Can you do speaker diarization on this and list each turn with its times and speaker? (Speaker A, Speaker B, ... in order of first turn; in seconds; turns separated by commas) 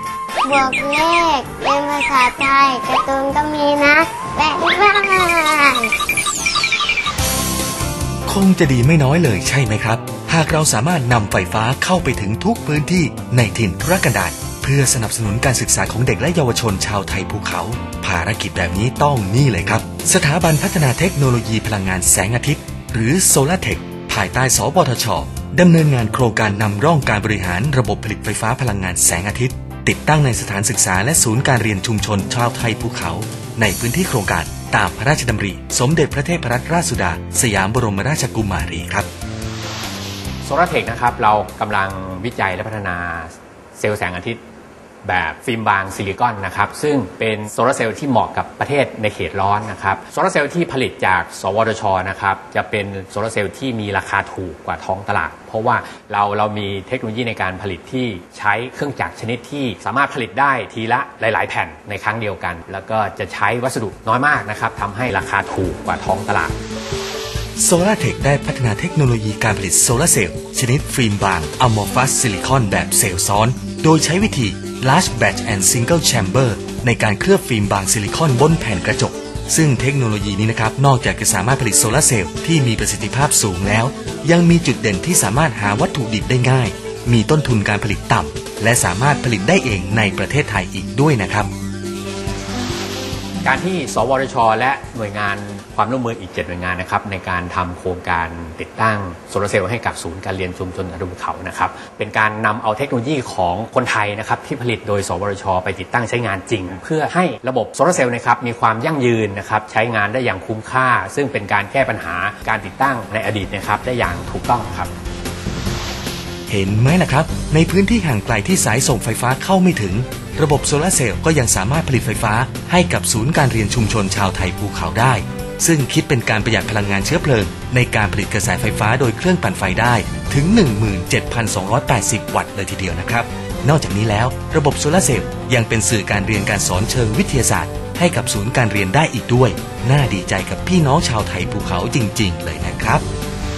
Speaker A: 0.4-5.9, Speaker B: 8.3-39.1, Speaker C: 40.4-44.4, Speaker C: 45.0-66.6, Speaker B: 67.6-91.5, Speaker C: 93.4-114.9, Speaker B: 116.5-143.0